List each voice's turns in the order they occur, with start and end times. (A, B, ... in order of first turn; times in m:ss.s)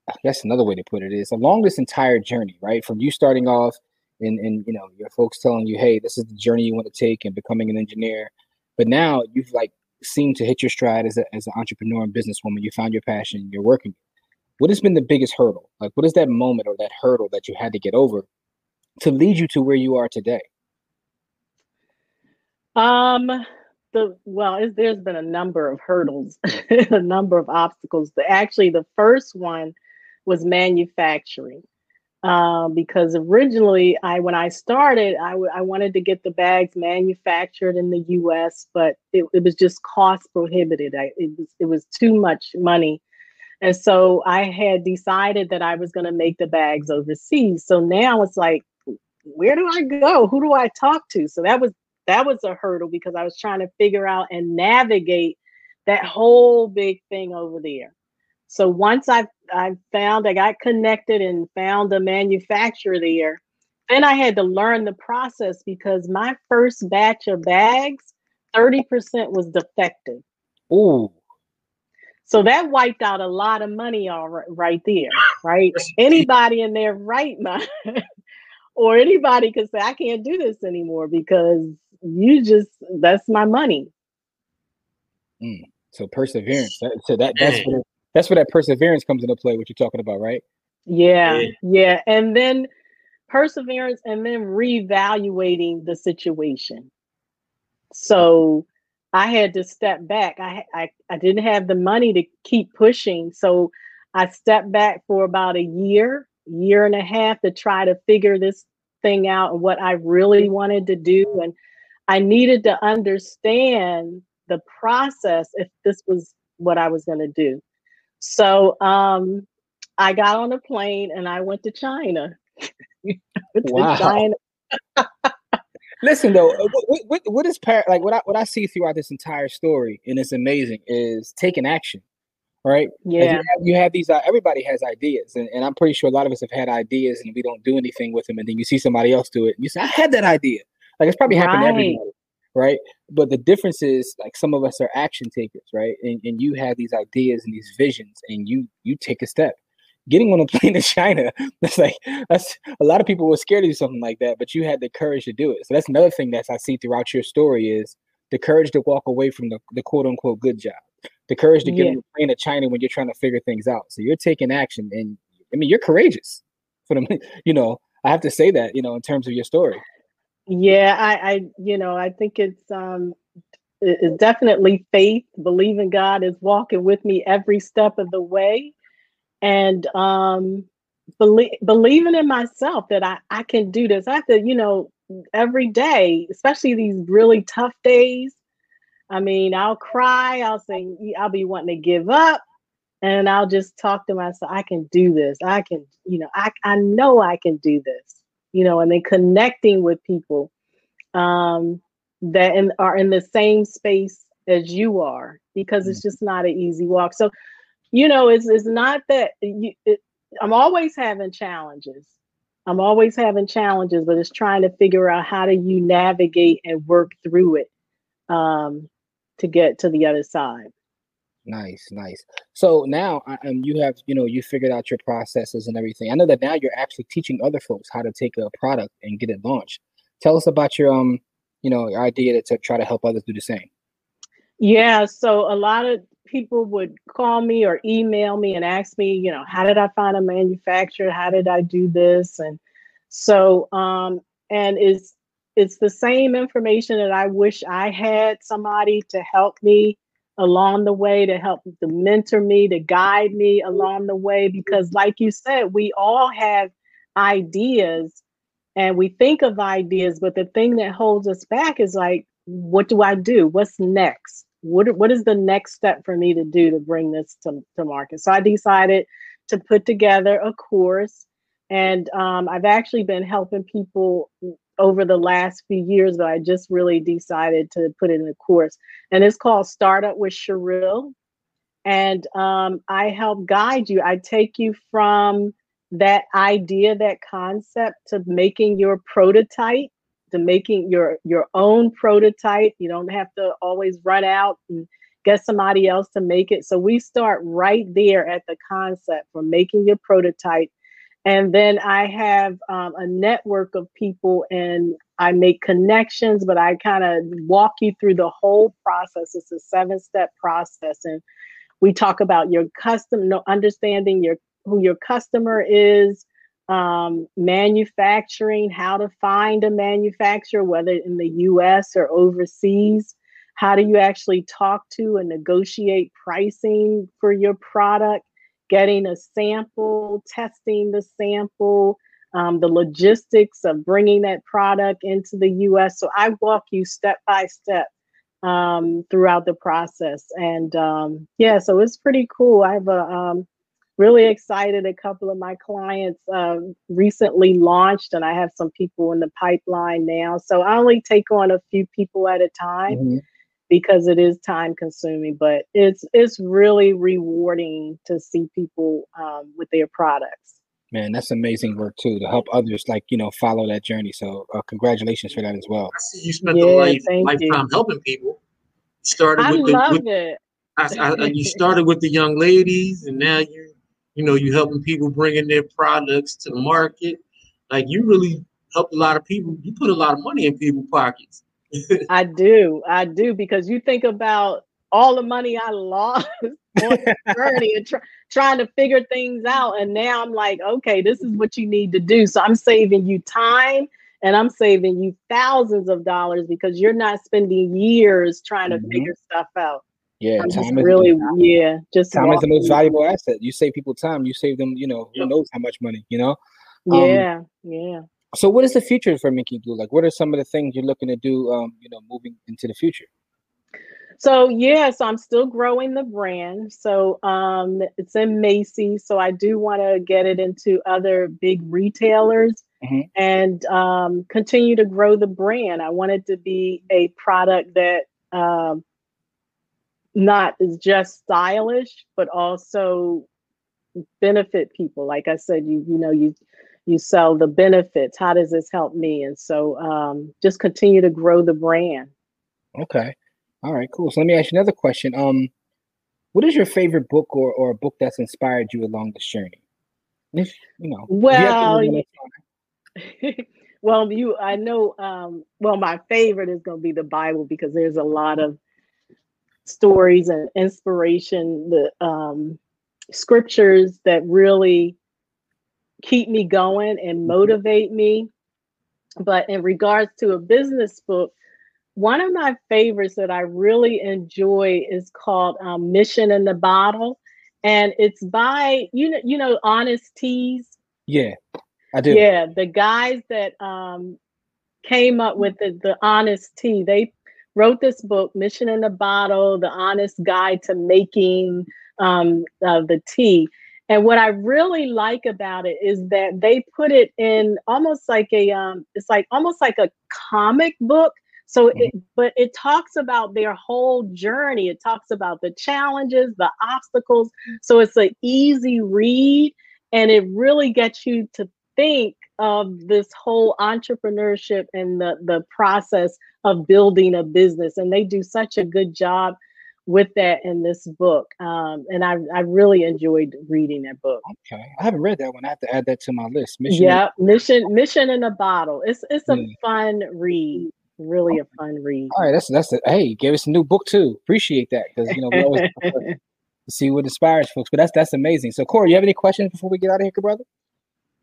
0:00.2-0:13.9 A
0:14.6-0:18.3 A
0:19.0-0:20.4 A
0:22.8-0:29.7 B
0:30.2-0:31.6 B
0:32.2-0:43.0 B
0:43.6-0:48.6 B
0:49.3-0:57.9 B
0:58.5-1:10.2 B
1:10.7-1:11.1 A
1:12.2-1:18.0 B
1:18.8-1:23.9 B
1:25.4-1:30.4 A
1:27.4-1:27.7 C
1:30.9-1:32.7 B
1:31.2-1:31.5 C
1:33.3-1:36.9 B
1:37.9-1:51.5 B
1:52.1-1:57.6 B
1:58.2-1:59.5 B
2:00.0-2:02.4 B
2:03.5-2:04.3 B
2:03.6-2:04.2 A
2:05.0-2:05.3 B
2:06.0-2:12.0 A
2:12.6-2:49.8 A
2:13.0-2:13.5 B
2:21.3-2:22.0 B
2:41.6-2:42.0 B
2:50.5-2:53.2 B
2:53.8-2:58.7 B
2:59.4-3:00.7 B
3:01.2-3:08.4 B
3:09.1-3:12.4 B
3:13.0-3:20.5 B
3:21.1-3:27.3 B
3:27.9-3:32.1 B
3:32.7-3:37.7 B
3:38.3-3:40.7 B
3:41.4-3:53.7 A
3:54.6-4:18.2 B
4:18.8-4:41.1 B
4:41.9-5:00.7 B
5:01.2-5:11.2 B
5:11.8-5:37.9 B
5:38.4-5:43.5 B
5:44.0-5:53.0 B
5:52.9-5:53.2 A
5:53.7-6:00.6 B
6:00.9-6:05.9 A
6:05.9-6:08.4 C
6:06.5-6:07.6 B
6:09.0-6:10.0 C
6:09.4-6:10.4 B
6:10.8-6:22.0 C
6:10.9-6:11.6 B
6:22.1-6:39.8 B
6:26.9-6:27.3 A
6:38.7-6:39.1 A
6:40.2-6:41.3 A
6:40.4-6:42.8 B
6:42.1-6:46.4 A
6:46.9-6:48.0 B
6:46.9-6:47.2 A
6:48.3-6:53.1 A
6:54.2-7:02.6 B
7:02.8-7:03.1 A
7:03.1-7:08.8 B
7:10.1-7:13.3 B
7:14.2-7:22.1 B
7:22.8-7:25.5 A
7:26.3-7:29.6 A
7:30.3-7:32.3 A
7:31.1-7:32.0 B
7:33.0-7:38.6 B
7:39.6-7:42.6 B
7:43.1-7:45.0 B
7:46.0-7:48.3 B
7:49.2-7:51.3 B
7:52.0-8:00.8 B
8:01.1-8:01.4 A
8:01.9-8:02.2 A
8:02.1-8:04.2 B
8:04.8-8:44.2 B
8:44.2-8:47.0 A
8:46.7-8:52.1 B
8:52.1-8:56.0 A
8:55.3-8:56.1 B
8:56.7-9:00.4 A